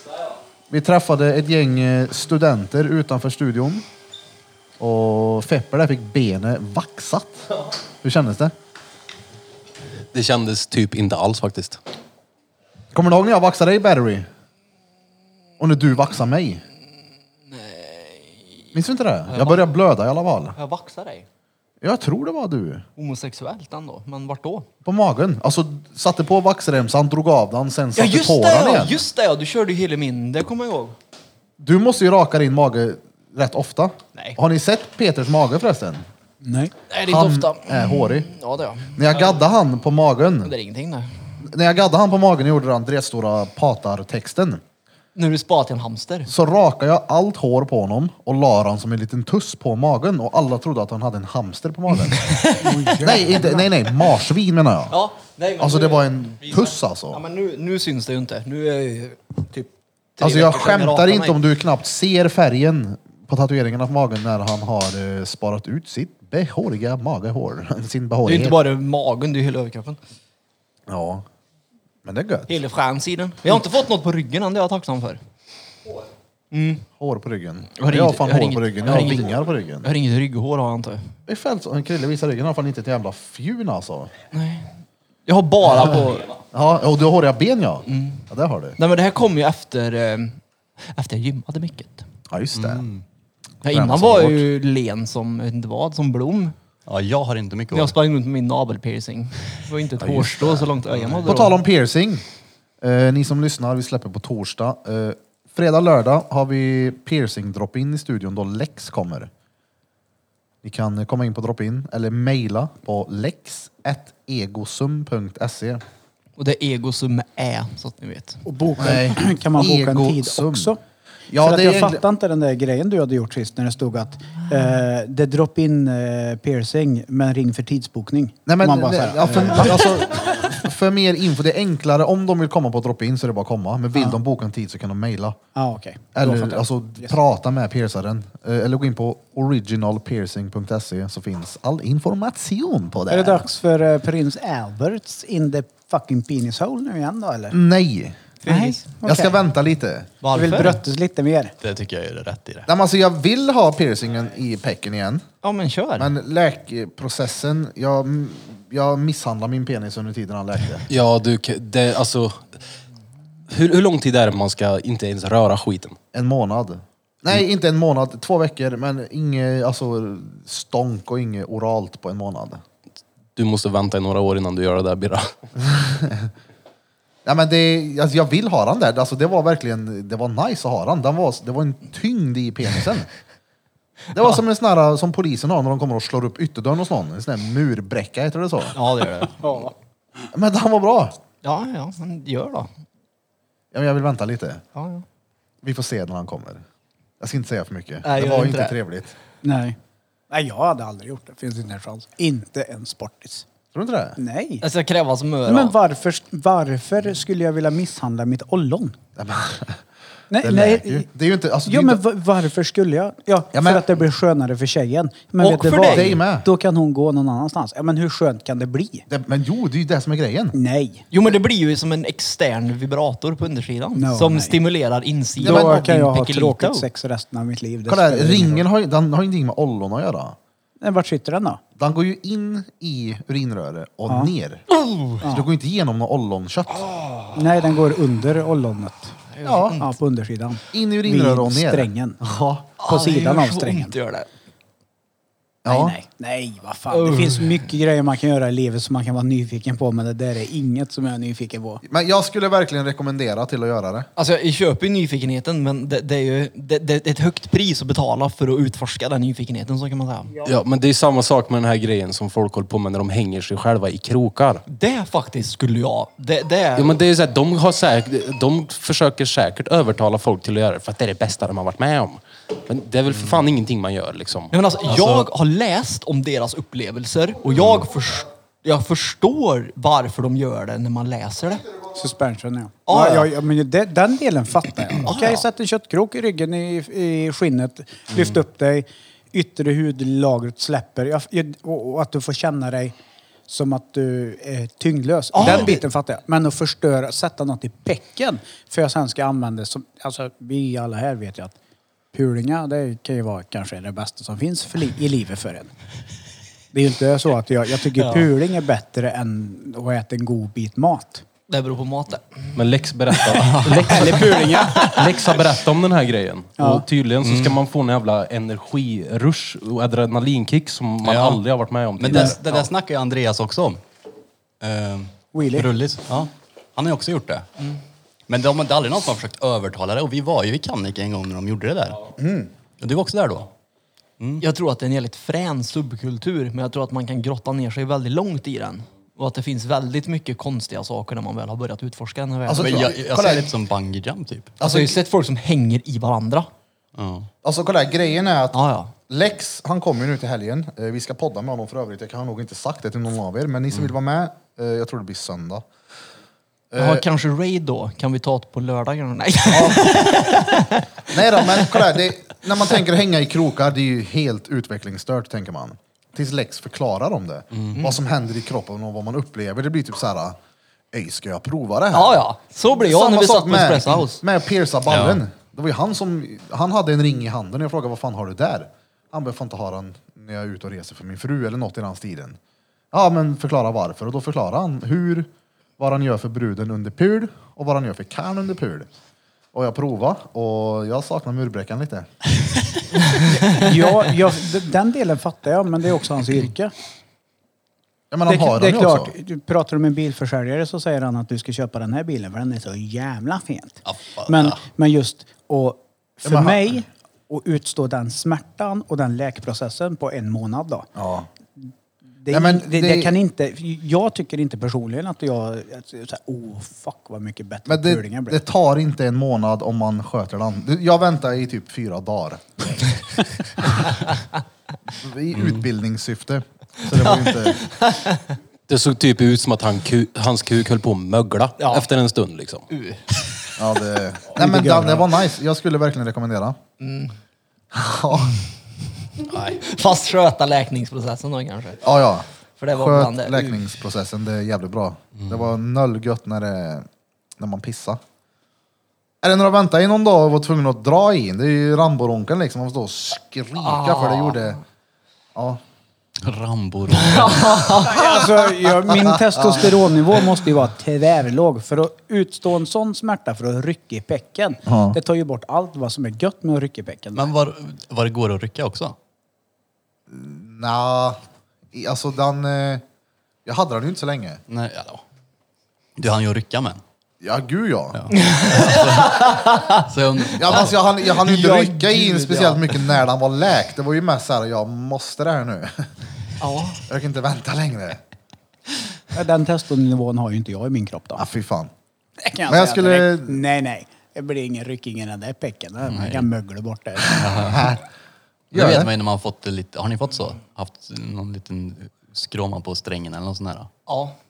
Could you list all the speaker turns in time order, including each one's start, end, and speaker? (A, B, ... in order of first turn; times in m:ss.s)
0:00.7-0:03.8 A
0:04.8-0:07.5 A
0:08.0-0:08.5 A
0:10.1-0:11.8 B
0:12.9-0:14.3 A
0:15.6-0:16.6 A
0:17.5-0:18.4 C
0:18.7-0:20.6 A
0:19.3-0:19.7 C
0:20.6-0:21.3 C
0:21.8-0:22.8 A
0:23.0-0:24.7 C
0:24.8-0:29.0 A
0:28.0-0:31.0 C
0:31.6-0:36.0 A
0:36.4-0:36.7 D
0:36.9-0:39.2 C
0:37.0-0:38.3 A
0:39.0-0:40.5 A
0:40.4-0:41.2 C
0:41.4-0:44.6 A
0:45.2-0:46.3 C
0:46.3-0:52.3 A
0:52.1-0:53.2 C
0:52.6-0:53.7 D
0:53.0-0:55.0 A
0:54.9-1:01.4 C
0:55.6-0:57.2 A
1:00.2-1:08.6 A
1:08.2-1:10.0 C
1:10.9-1:11.2 A
1:12.0-1:12.5 A
1:12.5-1:15.2 C
1:16.5-1:16.9 C
1:17.0-1:19.9 A
1:17.8-1:21.2 C
1:21.3-1:24.1 A
1:24.3-1:24.7 C
1:25.3-1:26.4 C
1:26.5-1:28.8 A
1:27.9-1:28.3 C
1:28.8-1:32.1 C
1:32.3-1:32.8 A
1:32.6-1:33.0 E
1:33.6-1:36.6 C
1:33.7-1:34.4 A
1:36.9-1:37.9 E
1:37.7-1:41.6 C
1:40.2-1:40.6 A
1:40.5-1:41.3 E
1:41.3-1:42.2 A
1:42.8-1:49.3 A
1:50.6-1:55.8 A
1:56.4-1:58.5 C
1:58.5-2:00.8 D
1:58.8-2:00.7 A
2:01.3-2:02.0 A
2:01.4-2:10.0 D
2:08.5-2:15.4 A
2:15.6-2:17.2 D
2:16.2-2:23.5 A
2:23.1-2:27.6 D
2:27.5-2:28.2 A
2:28.4-2:28.9 C
2:28.5-2:29.4 D
2:29.0-2:30.1 A
2:30.2-2:30.8 C
2:30.3-2:31.5 D
2:31.6-2:32.7 E
2:32.7-2:35.2 A
2:35.4-2:36.1 C
2:36.0-2:40.8 A
2:40.9-2:42.4 B
2:43.5-2:46.0 B
2:46.1-2:52.6 A
2:53.4-2:55.3 B
2:55.6-2:56.3 A
2:57.2-3:03.1 A
3:04.1-3:08.8 A
3:08.8-3:09.4 C
3:09.4-3:09.7 D
3:10.3-3:11.2 A
3:11.4-3:12.7 C
3:13.7-3:14.6 A
3:14.8-3:15.0 C
3:15.6-3:16.6 A
3:17.2-3:19.1 A
3:18.0-3:18.8 C
3:19.4-3:19.8 D
3:20.3-3:23.4 D
3:23.7-3:24.2 A
3:24.2-3:24.6 D
3:24.6-3:25.8 C
3:25.5-3:29.0 D
3:29.2-3:29.8 A
3:30.3-3:31.1 D
3:30.4-3:32.0 A
3:31.7-3:39.1 D
3:33.5-3:33.9 A
3:35.4-3:36.2 C
3:35.9-3:36.5 A
3:39.1-3:40.6 A
3:40.5-3:41.0 D
3:41.1-3:46.9 C
3:44.0-3:44.6 D
3:45.4-3:48.6 D
3:45.4-3:45.9 A
3:47.9-3:50.4 A
3:50.8-3:51.6 D
3:51.8-3:54.6 A
3:54.7-3:55.2 C
3:55.2-3:55.5 D
3:55.2-3:56.9 A
3:56.9-3:57.2 C
3:57.4-3:59.2 D
3:59.3-3:59.9 C
3:59.4-3:59.8 A
3:59.8-4:02.2 D
4:00.7-4:02.7 A
4:02.8-4:04.3 C
4:02.8-4:03.9 D
4:05.6-4:06.0 A
4:05.7-4:11.8 D
4:06.9-4:07.6 C
4:11.8-4:14.1 A
4:14.2-4:20.3 C
4:20.4-4:24.6 B
4:24.7-4:27.0 C
4:26.8-4:34.5 B
4:34.5-4:41.7 C
4:42.0-4:53.0 D
4:42.9-4:43.3 C
4:45.0-4:45.5 C
4:53.5-5:01.6 D
4:55.3-4:55.8 C
5:02.1-5:05.7 D
5:06.7-5:11.2 D
5:07.9-5:08.3 C
5:11.5-5:12.6 C
5:12.6-5:22.7 B
5:13.1-5:15.4 C
5:13.4-5:14.1 E
5:16.6-5:16.8 D
5:17.2-5:17.6 E
5:21.0-5:21.4 E
5:22.0-5:23.8 E
5:24.6-5:27.4 E
5:25.3-5:25.7 D
5:28.3-5:32.0 E
5:32.2-5:32.5 A
5:32.8-5:33.5 E
5:34.4-5:42.9 C
5:42.5-5:43.5 A
5:42.5-5:44.5 E
5:44.6-5:45.0 A
5:44.6-5:46.5 C
5:47.0-5:47.3 E
5:47.4-5:55.6 A
5:48.5-5:48.9 C
5:56.7-5:57.0 A
5:56.8-6:01.9 C
5:59.5-6:00.1 A
6:01.1-6:10.4 A
6:07.7-6:08.0 C
6:10.9-6:12.2 A
6:11.9-6:14.2 C
6:12.8-6:22.4 A
6:14.9-6:15.2 E
6:22.9-6:28.9 A
6:29.5-6:32.1 A
6:33.4-6:36.7 D
6:38.1-6:39.1 A
6:38.3-6:50.9 D
6:43.8-6:44.6 E
6:46.2-6:46.8 A
6:51.0-6:51.3 A
6:52.2-6:58.4 D
6:52.3-6:53.2 A
6:57.7-7:02.8 A
7:04.9-7:07.6 A
7:05.4-7:05.6 E
7:06.9-7:08.3 C
7:08.7-7:12.7 B
7:11.6-7:11.9 C
7:12.7-7:13.2 C
7:13.6-7:16.6 A
7:14.4-7:15.1 D
7:16.8-7:17.1 C
7:17.7-7:18.4 A
7:19.3-7:19.6 B
7:19.6-7:21.9 C
7:21.8-7:26.9 A
7:22.6-7:23.7 C
7:27.4-7:28.0 A
7:29.2-7:34.6 A
7:33.6-7:34.6 C
7:35.4-7:35.6 A
7:36.2-7:37.9 E
7:36.9-7:38.0 C
7:37.8-7:47.3 D
7:38.0-7:39.8 A
7:44.7-7:45.0 A
7:47.2-7:49.0 E
7:50.1-7:51.2 A
7:51.7-7:52.8 A
7:53.4-7:54.4 A
7:54.5-7:55.0 E
7:56.0-7:56.8 E
7:57.2-7:58.2 A
7:57.9-8:00.8 E
7:58.2-7:59.8 C
8:00.4-8:05.9 A
8:01.1-8:02.8 C
8:06.4-8:06.8 C
8:06.9-8:08.0 A
8:09.1-8:11.2 D
8:11.2-8:11.7 A
8:12.2-8:17.3 D
8:12.5-8:13.4 A
8:15.9-8:16.3 E
8:17.0-8:17.8 A
8:17.2-8:17.7 E
8:18.5-8:18.9 A
8:18.5-8:23.7 E
8:23.9-8:24.2 C